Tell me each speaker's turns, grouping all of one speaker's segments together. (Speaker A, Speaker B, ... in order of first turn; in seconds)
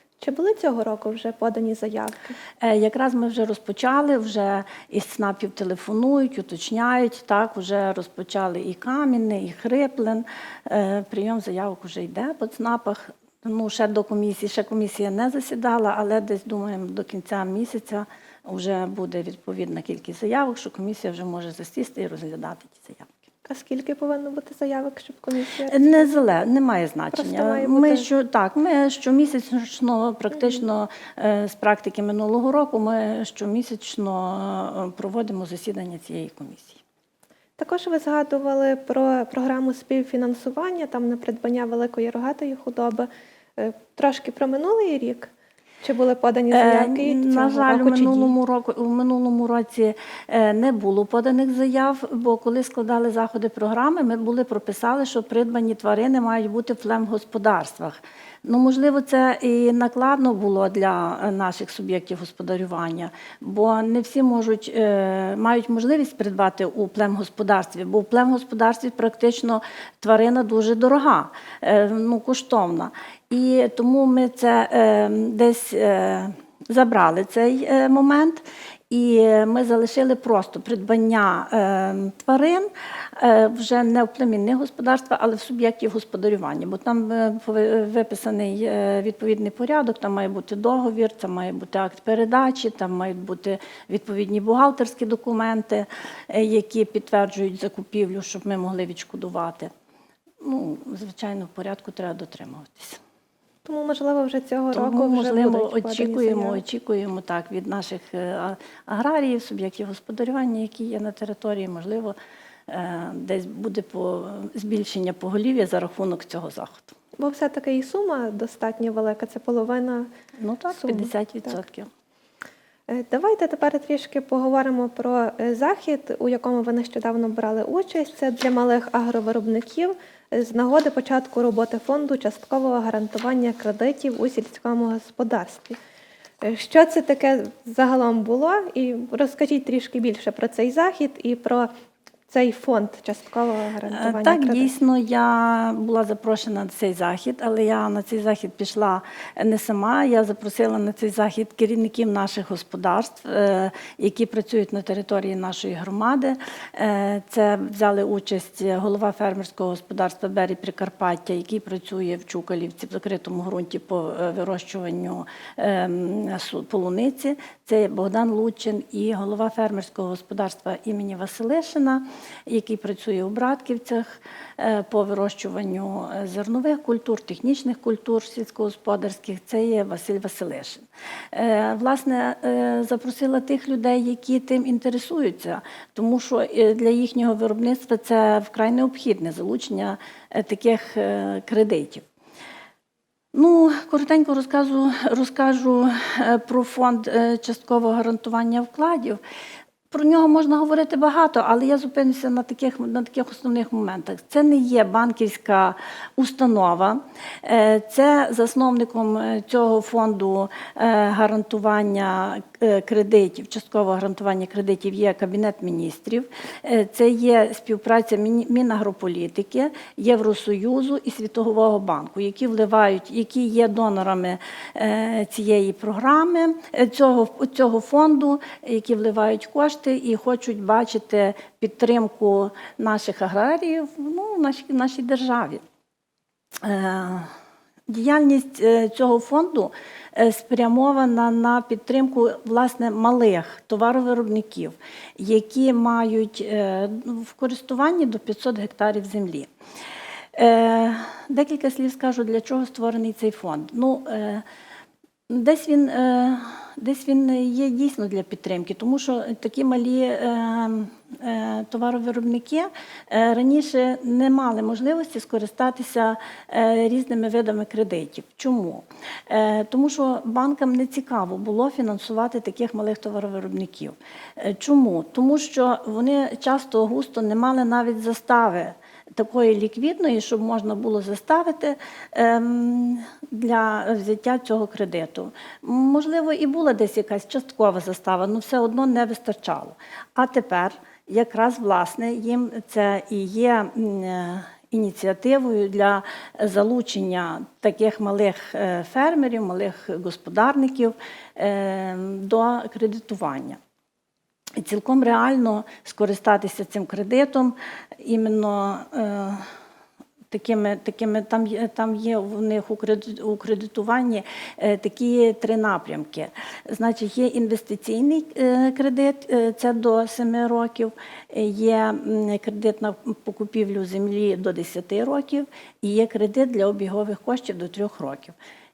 Speaker A: 0.2-2.4, 23.4-26.1, 27.1-28.1, 37.6-48.3, 103.6-106.6, 117.2-120.1, 120.7-121.6, 122.9-135.8, 136.4-141.7, 142.3-144.7
Speaker B: 2.6-23.1, 25.7-36.8, 46.5-99.7, 100.4-103.0, 104.7-112.1, 112.7-116.9, 120.4-121.9, 143.9-192.0, 193.3-199.2, 199.9-235.6, 236.6-237.3, 237.9-249.5, 250.3-254.4, 255.3-303.6, 304.6-309.5, 310.3-328.4